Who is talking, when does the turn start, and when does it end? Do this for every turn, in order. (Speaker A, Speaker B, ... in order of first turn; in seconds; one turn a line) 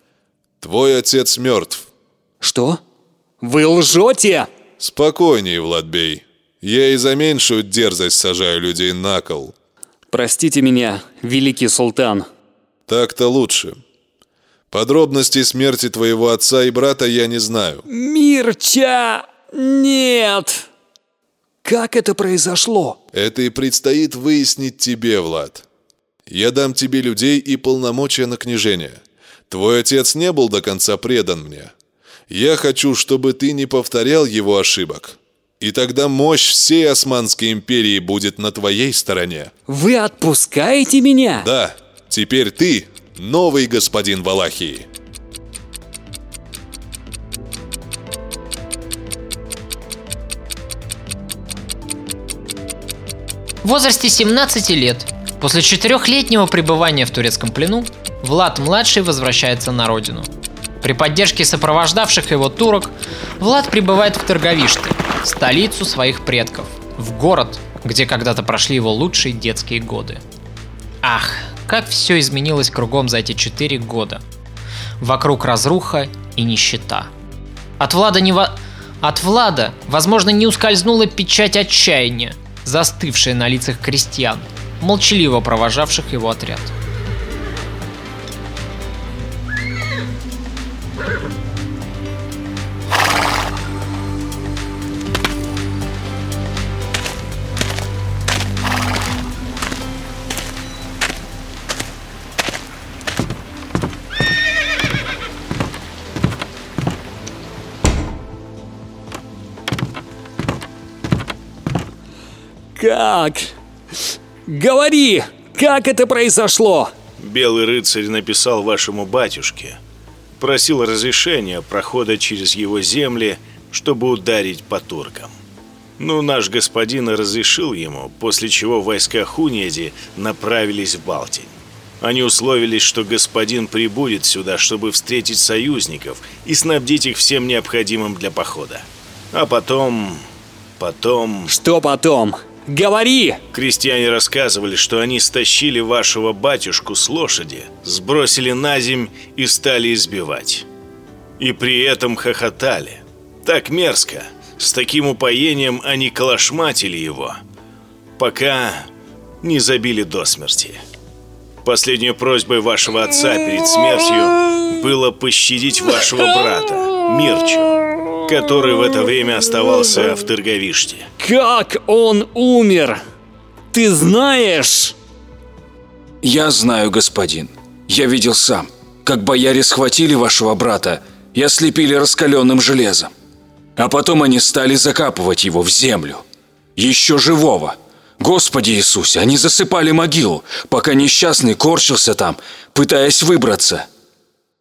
Speaker A: 0.6-1.9
Speaker B: 2.4-2.8
Speaker B: 3.4-4.5
Speaker A: 4.8-9.5
Speaker B: 10.1-12.3
Speaker A: 12.9-13.8
Speaker A: 14.7-17.8
Speaker B: 17.9-20.7
Speaker B: 21.6-23.0
Speaker A: 23.1-25.6
Speaker A: 26.3-31.7
Speaker A: 32.3-39.5
Speaker B: 39.7-41.5
Speaker A: 41.4-44.9
Speaker C: 53.6-60.3
Speaker C: 60.8-70.2
Speaker C: 71.0-74.2
Speaker C: 75.0-77.1
Speaker C: 77.8-86.7
Speaker B: 112.8-113.5
Speaker B: 114.5-116.9
Speaker D: 117.2-119.8
Speaker D: 120.4-125.3
Speaker D: 126.0-140.2
Speaker D: 140.8-141.5
Speaker B: 141.5-143.4
Speaker D: 143.5-150.7
Speaker D: 151.4-157.4
Speaker D: 158.2-158.9
Speaker D: 159.4-160.8
Speaker D: 161.7-167.7
Speaker D: 168.3-171.1
Speaker B: 171.2-173.0
Speaker B: 173.7-174.9
Speaker E: 176.2-183.1
Speaker E: 183.8-186.2
Speaker E: 186.8-193.9